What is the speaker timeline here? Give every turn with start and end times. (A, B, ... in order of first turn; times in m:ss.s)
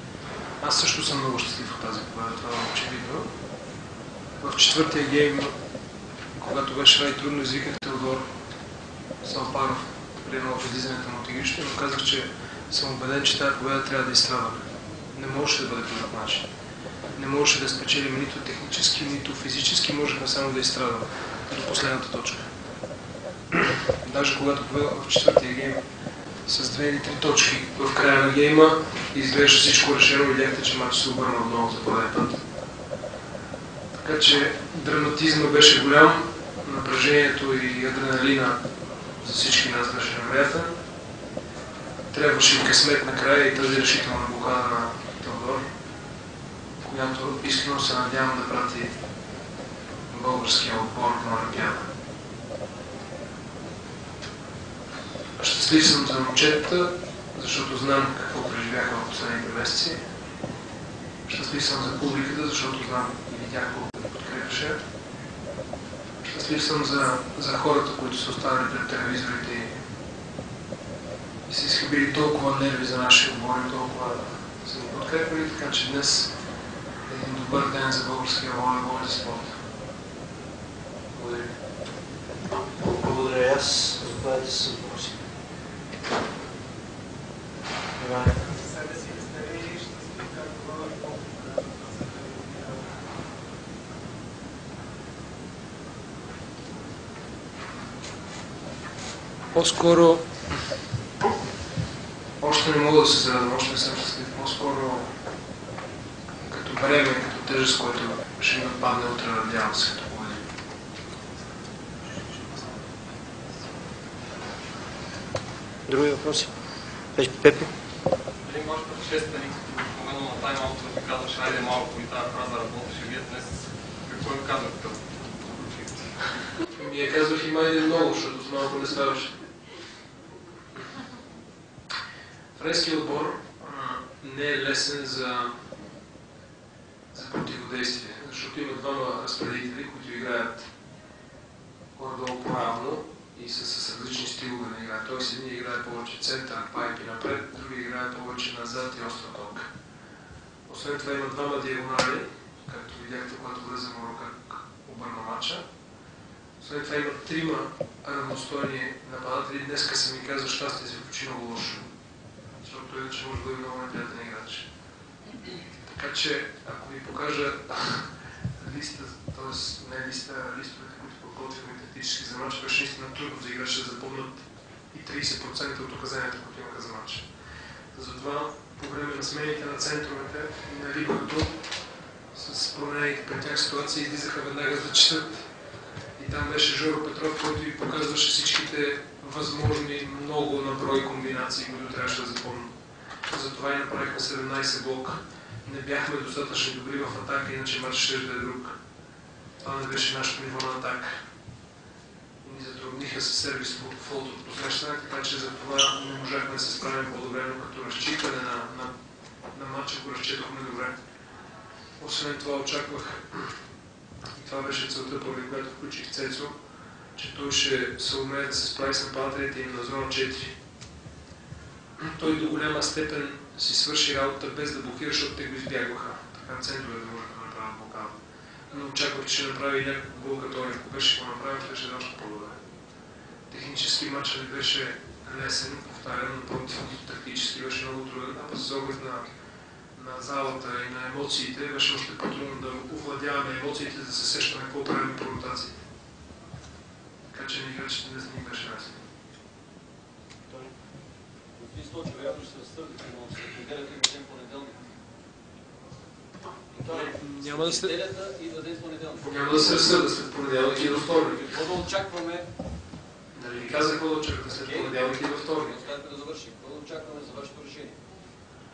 0:00.6-0:03.3 A
0:04.4-0:05.5 A
0:06.4-0:08.3 A
0:09.2-0:16.5 A
0:17.2-0:22.5 A
0:23.5-0:25.8 A
0:26.5-0:32.4 A
0:34.0-0:38.6 A
0:39.2-0:40.7 A
0:42.1-0:45.6 A
0:46.8-0:48.9 A
0:50.1-0:51.9 A
0:55.4-1:00.0 A
1:01.3-1:04.8 A
1:06.2-1:09.7 A
1:11.5-1:16.3 A
1:17.1-1:19.6 A
1:21.1-1:21.5 A
1:22.8-1:25.2 B
1:28.0-1:33.0 B
1:39.5-1:40.3 A
1:42.4-1:45.1 A
1:46.4-1:50.4 A
1:55.9-1:56.5 B
1:57.2-1:57.7 B
1:58.4-2:06.1 C
2:06.7-2:09.3 A
2:12.6-2:15.6 A
2:17.1-2:20.7 A
2:22.0-2:29.7 A
2:30.7-2:35.6 A
2:36.6-2:41.9 A
2:42.6-2:44.7 A
2:45.8-2:57.2 A
2:57.9-3:01.6 A
3:02.3-3:05.5 A
3:06.2-3:12.7 A
3:13.3-3:18.8 A
3:19.6-3:21.2 A
3:22.4-3:28.9 A
3:29.5-3:31.0 A
3:32.0-3:33.5 A
3:34.4-3:36.5 A
3:37.2-3:40.6 A
3:42.0-3:48.2 A
3:48.7-3:52.6 A
3:53.5-3:59.3 A
4:00.0-4:05.8 A
4:07.3-4:09.0 A
4:11.6-4:14.8 D
4:16.8-4:19.3 D
4:16.8-4:17.1 B
4:17.2-4:18.0 A
4:19.2-4:21.5 A
4:21.1-4:22.5 D
4:23.4-4:25.8 A
4:24.6-4:25.0 D
4:25.5-4:28.0 D